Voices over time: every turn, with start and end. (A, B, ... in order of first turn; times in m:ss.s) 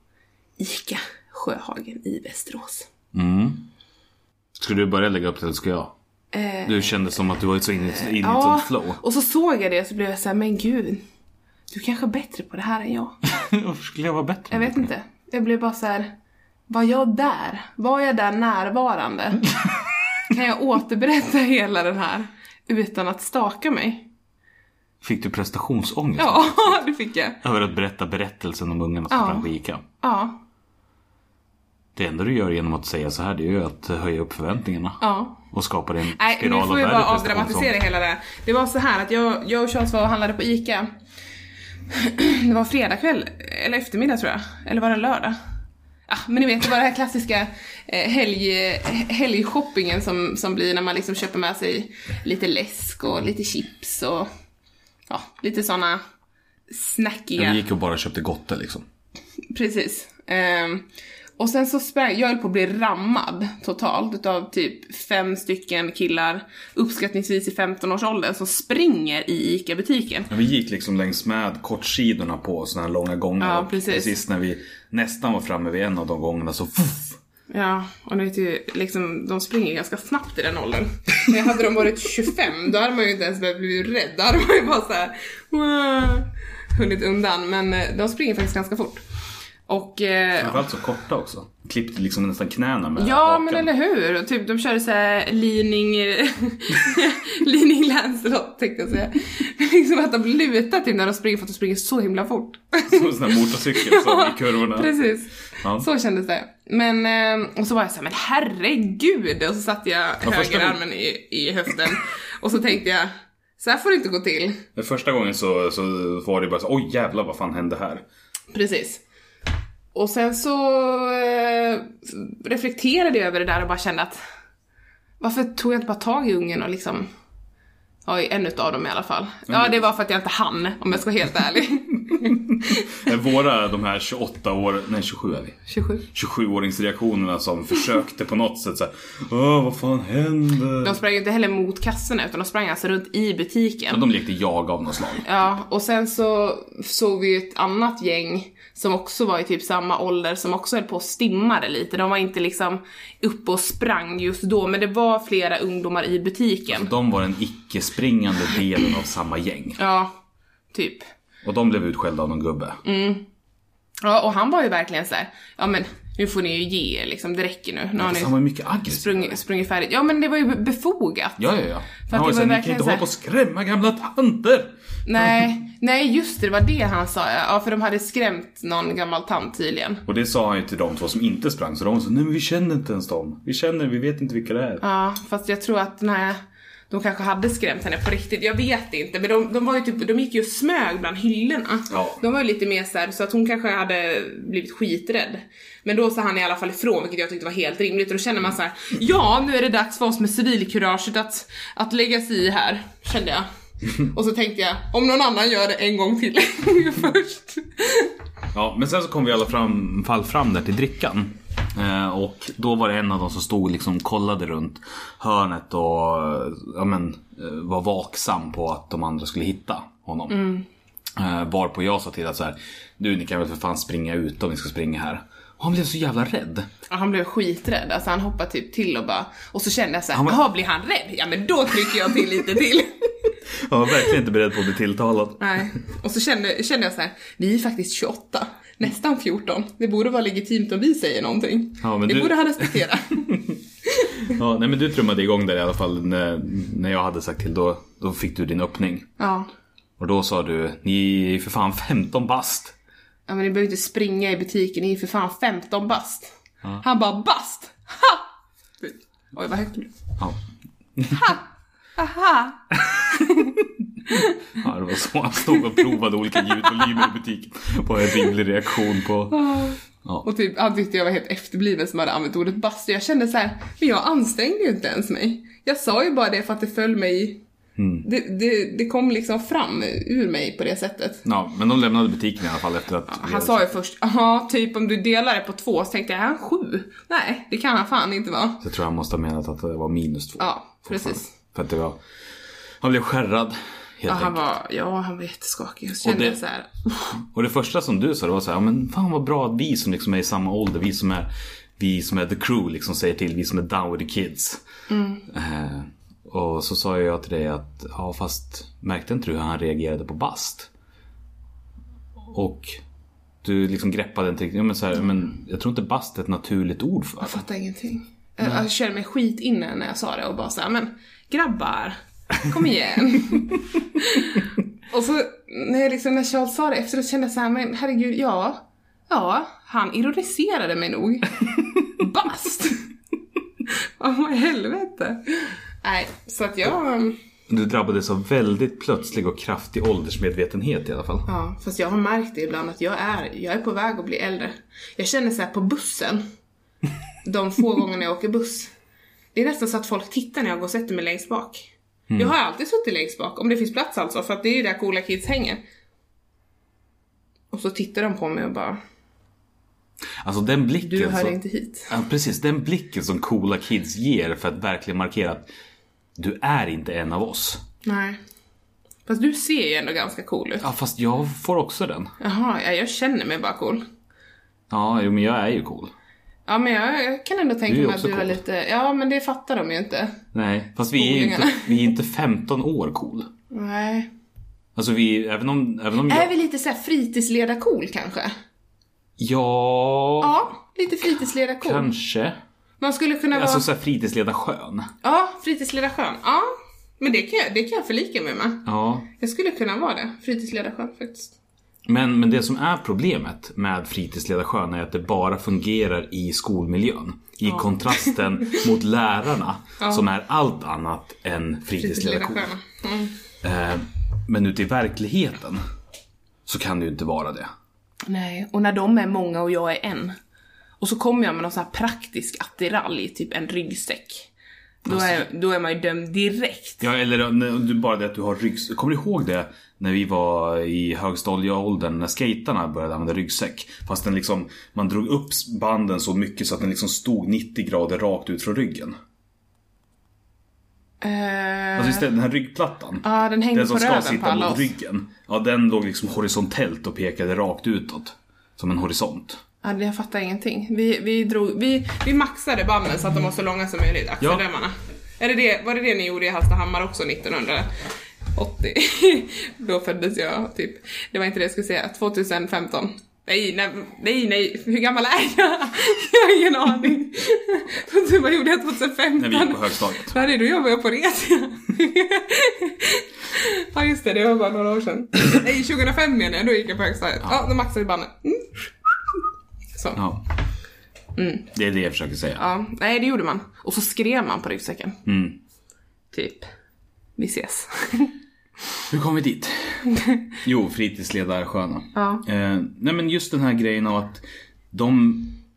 0:00.6-0:02.9 A
0:03.1-0:03.7 B
0:04.6-0:05.9 B
0:06.3-0:06.9 A
0:06.6-0:09.0 B
0:07.9-0:11.0 A
0:11.7-0:13.2 A
0:13.3-0:14.9 B
0:14.5-0:16.1 A
0:16.7-0:19.4 A
0:20.3-0:24.1 A
0:25.0-0:26.8 B
0:26.2-0:27.4 A
0:27.4-0:29.8 B
0:29.1-0:29.5 A
0:30.0-0:30.4 A
0:31.9-0:37.7 B
0:35.0-0:35.4 A
0:36.1-0:40.9 A
0:41.9-0:45.4 A
0:46.1-0:54.3 A
0:55.1-0:56.0 A
0:56.7-0:57.6 A
0:57.4-0:58.8 B
0:59.5-1:00.9 A
1:01.4-1:10.3 A
1:10.3-1:17.2 B
1:13.4-1:14.2 A
1:17.5-1:29.0 A
1:29.7-1:30.6 A
1:30.4-1:33.7 B
1:33.0-1:54.6 A
1:42.9-1:45.0 B
1:45.6-1:45.9 B
1:50.2-1:50.8 B
1:54.8-1:58.0 B
1:58.5-1:59.0 A
1:59.9-2:04.2 A
2:05.2-2:07.1 A
2:08.0-2:13.1 A
2:09.5-2:09.7 B
2:12.1-2:15.6 B
2:15.7-2:16.0 A
2:16.1-2:21.0 B
2:20.8-2:24.0 A
2:23.9-2:25.3 B
2:25.2-2:36.9 A
2:36.7-2:39.8 B
2:39.8-2:40.2 A
2:40.7-2:41.0 A
2:41.4-2:42.8 B
2:42.8-2:43.3 A
2:44.0-2:51.4 A
2:48.0-2:49.4 B
2:51.4-2:54.7 B
2:52.0-2:53.1 A
2:55.0-3:00.0 A
3:00.0-3:04.8 B
3:04.8-3:28.2 A
3:11.9-3:12.2 B
3:28.5-3:40.5 B
3:40.3-3:40.6 A
3:41.2-3:46.7 B
3:46.9-3:53.1 A
3:50.1-3:50.4 B
3:53.5-3:55.6 B
3:55.4-4:04.2 A
4:01.8-4:03.5 B
4:04.2-4:09.1 B
4:09.2-4:09.5 A
4:10.0-4:12.7 B
4:13.3-4:18.2 A
4:18.8-4:19.9 A
4:21.0-4:21.4 B
4:22.0-4:22.6 A
4:22.8-4:29.5 B
4:23.1-4:23.5 A
4:29.3-4:37.4 A
4:37.8-4:38.0 B
4:38.0-4:41.2 A
4:41.2-4:43.7 B
4:43.1-4:48.6 A
4:48.6-4:52.0 B
4:50.4-4:51.3 A
4:52.8-4:54.4 B
4:54.1-4:57.1 A
4:56.0-4:56.4 B
4:57.1-5:04.6 B
5:04.9-5:05.2 A
5:05.3-5:10.7 B
5:12.3-5:12.8 B
5:13.4-5:17.4 B
5:17.2-5:32.8 A
5:33.6-5:37.2 A
5:37.5-5:41.2 B
5:41.3-5:46.2 A
5:47.2-5:48.7 A
5:49.3-5:55.6 A
5:57.5-5:58.8 A
6:00.2-6:01.4 B
6:00.8-6:01.9 A
6:01.9-6:05.5 B
6:06.2-6:07.6 B
6:07.8-6:08.2 A
6:09.0-6:10.6 A
6:10.6-6:12.1 B
6:12.2-6:13.8 A
6:14.7-6:15.9 B
6:16.5-6:20.2 A
6:17.7-6:18.4 B
6:20.3-6:23.3 B
6:20.9-6:21.9 A
6:23.5-6:24.1 A
6:24.8-6:26.3 B
6:26.1-6:28.3 A
6:29.2-6:30.3 B
6:30.2-6:31.9 A
6:31.6-6:32.4 B
6:32.8-6:33.6 A
6:33.3-6:34.9 B
6:35.0-6:41.3 A
6:38.6-6:39.1 B
6:41.9-6:52.5 B
6:51.8-6:53.1 A
6:53.4-6:55.6 B
6:56.5-6:57.5 B
6:58.1-7:00.2 A
7:00.8-7:04.3 A
7:04.8-7:06.8 A
7:04.9-7:05.2 B
7:06.8-7:19.0 B
7:21.0-7:22.0 A
7:21.8-7:29.4 B
7:23.0-7:24.7 A
7:29.6-7:37.7 A
7:38.3-7:58.7 A
7:49.2-7:50.2 B
7:59.9-8:00.2 B
8:01.2-8:01.5 A
8:01.5-8:02.4 B
8:02.4-8:05.0 A
8:05.0-8:05.4 B
8:06.1-8:06.5 A
8:07.2-8:08.1 A
8:08.9-8:09.9 B
8:10.4-8:15.4 B
8:11.9-8:12.2 A